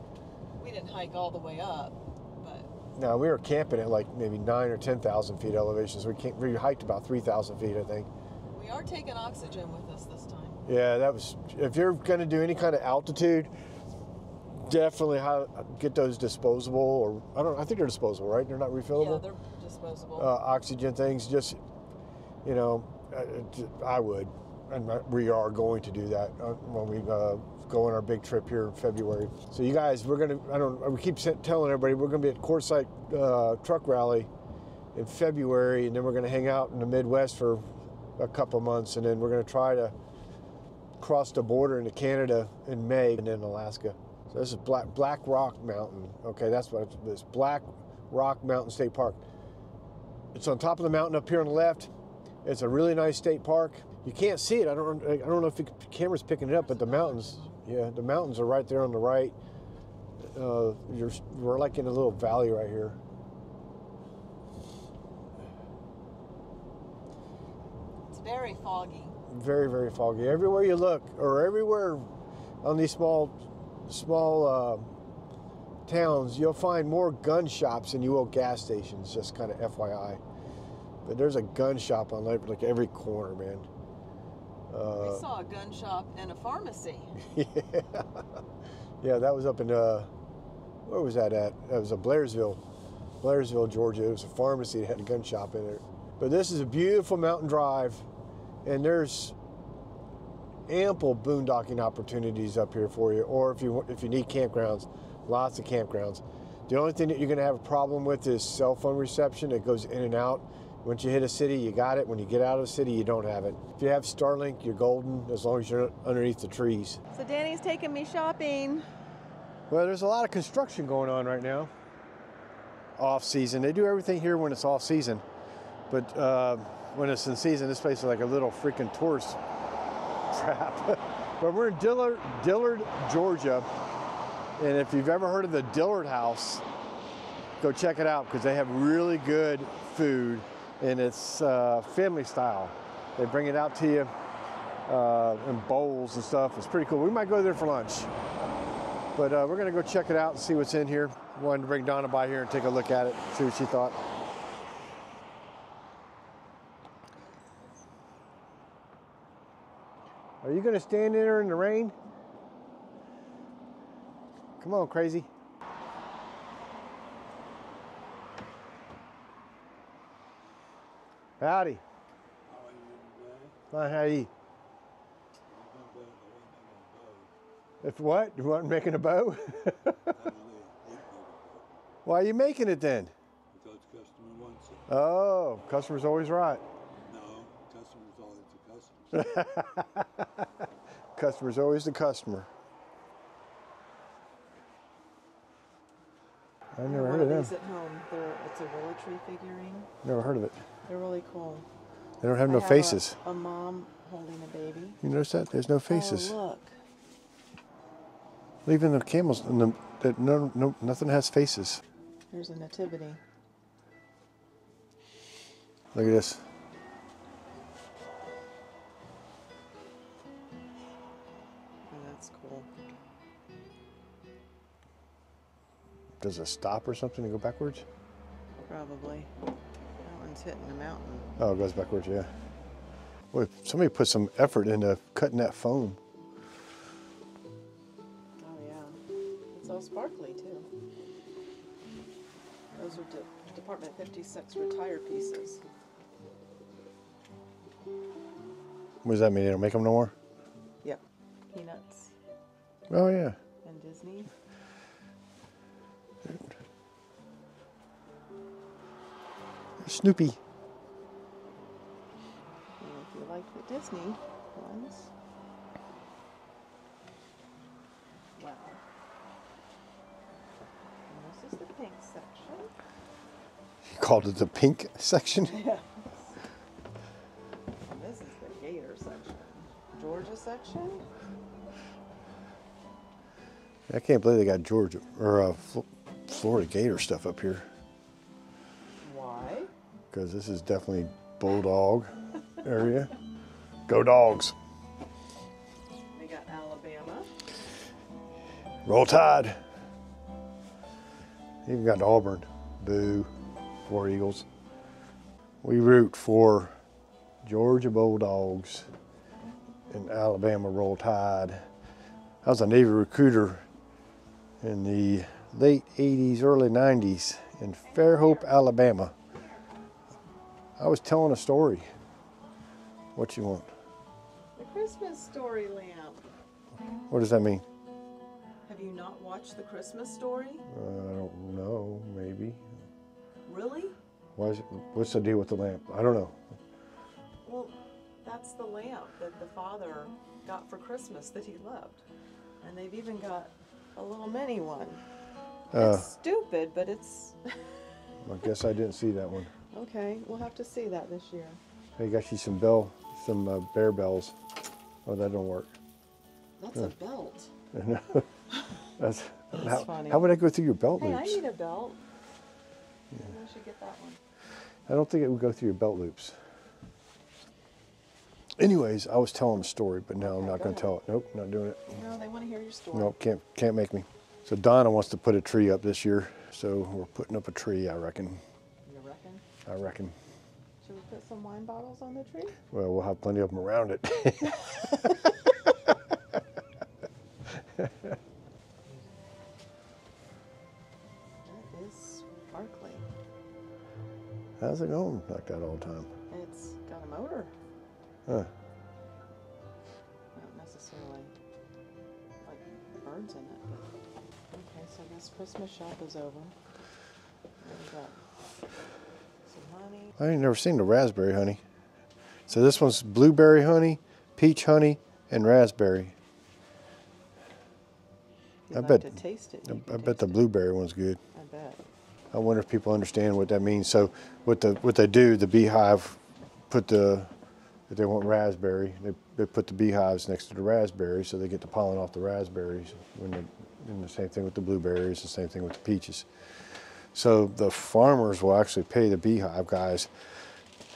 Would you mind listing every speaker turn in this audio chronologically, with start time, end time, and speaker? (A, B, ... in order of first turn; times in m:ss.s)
0:00.6-0:02.7 A
0:03.0-0:08.1 B
0:08.5-0:10.6 A
0:10.6-0:13.5 B
0:14.5-0:19.2 B
0:18.9-0:20.3 A
0:20.2-0:21.6 B
0:22.4-0:34.3 B
0:34.9-0:39.9 B
0:41.0-0:49.2 B
0:50.3-0:51.9 B
0:52.4-0:59.3 B
0:56.4-0:57.6 A
1:00.3-1:03.0 B
1:08.1-1:09.2 A
1:09.3-1:12.1 B
1:12.6-1:13.3 B
1:13.9-1:14.9 B
1:15.9-1:20.2 B
1:21.0-1:23.7 B
1:24.7-1:25.2 B
1:24.9-1:27.2 A
1:27.2-1:28.2 B
1:29.0-1:30.1 B
1:30.8-1:32.6 B
1:33.2-1:38.0 B
1:38.6-1:39.3 B
1:40.7-1:57.0 B
1:57.1-1:58.8 A
1:59.7-2:01.7 B
2:03.0-2:05.2 B
2:05.9-2:09.4 B
2:10.3-2:13.7 B
2:14.6-2:16.6 B
2:17.6-2:24.1 B
2:24.9-2:28.1 B
2:29.1-2:34.0 B
2:40.4-2:41.9 B
2:44.6-2:45.3 B
2:51.4-2:51.8 B
2:52.4-2:53.6 C
2:53.7-2:54.3 B
2:55.5-2:57.3 C
2:57.8-3:00.1 B
3:00.1-3:01.8 C
3:02.0-3:03.1 B
3:03.5-3:04.8 C
3:04.9-3:06.6 B
3:07.0-3:09.4 C
3:09.1-3:10.4 B
3:11.2-3:12.5 B
3:16.7-3:17.5 B
3:16.8-3:19.9 A
3:20.0-3:20.6 B
3:20.8-3:21.6 A
3:22.2-3:23.2 B
3:22.5-3:25.0 A
3:25.0-3:26.4 B
3:25.9-3:26.8 A
3:28.6-3:31.8 B
3:32.3-3:33.2 A
3:35.9-3:36.4 B
3:41.9-3:42.7 A
3:46.2-3:47.8 B
3:48.6-3:49.3 A
3:50.0-3:51.3 A
3:51.4-3:52.3 B
3:53.3-3:56.0 B
3:58.4-3:59.0 A
3:59.5-4:00.7 A
4:02.7-4:05.6 A
4:09.0-4:10.1 B
4:11.5-4:12.1 A
4:12.9-4:13.4 B
4:13.6-4:14.3 A
4:19.8-4:20.4 B
4:22.8-4:25.1 A
4:28.4-4:28.8 A
4:31.1-4:32.7 A
4:33.8-4:35.6 B
4:35.4-4:36.4 A
4:37.8-4:41.0 A
4:43.9-4:47.7 B
4:49.0-4:49.7 A
4:50.1-4:53.1 B
4:53.9-4:54.6 B
4:56.1-4:57.3 A
4:58.8-4:59.6 B
5:01.6-5:03.3 B
5:03.8-5:04.4 B
5:05.6-5:06.7 B
5:07.4-5:08.9 B
5:09.9-5:11.6 B
5:12.4-5:13.6 B
5:14.6-5:19.1 B
5:17.9-5:18.5 A
5:20.8-5:21.9 B
5:23.2-5:23.7 B
5:24.6-5:26.2 A
5:27.1-5:27.6 B
5:28.6-5:30.6 A
5:30.7-5:32.6 B
5:33.4-5:34.0 A
5:34.4-5:36.4 B
5:37.4-5:42.0 A
5:42.6-5:45.0 A
5:45.7-5:46.1 B
5:45.7-5:47.6 A
5:48.2-5:49.5 B
5:49.7-5:51.6 A
5:52.0-5:54.4 B
5:55.0-5:55.7 B
5:56.6-5:57.5 A
5:57.7-5:58.2 B
5:59.0-6:01.4 B
5:59.6-6:00.3 A
6:01.0-6:02.0 A
6:03.2-6:04.2 A
6:04.9-6:06.4 B
6:08.6-6:11.8 B
6:10.2-6:10.9 A
6:11.9-6:13.1 A
6:12.9-6:18.4 B
6:18.8-6:19.4 A
6:19.6-6:20.1 B
6:20.8-6:22.6 A
6:22.7-6:25.3 B
6:27.8-6:28.2 B
6:31.4-6:33.1 A
6:34.6-6:36.1 B
6:36.3-6:37.5 A
6:40.3-6:41.3 A
6:42.4-6:43.9 A
6:44.5-6:46.5 A
6:47.6-6:48.3 A
6:49.5-6:50.2 A
6:50.2-6:51.6 B
6:52.5-6:56.1 B
6:58.7-7:00.4 A
6:58.7-7:01.2 B
7:01.3-7:01.8 A
7:02.3-7:06.2 B
7:06.7-7:07.3 B
7:07.9-7:16.3 B
7:17.1-7:20.1 B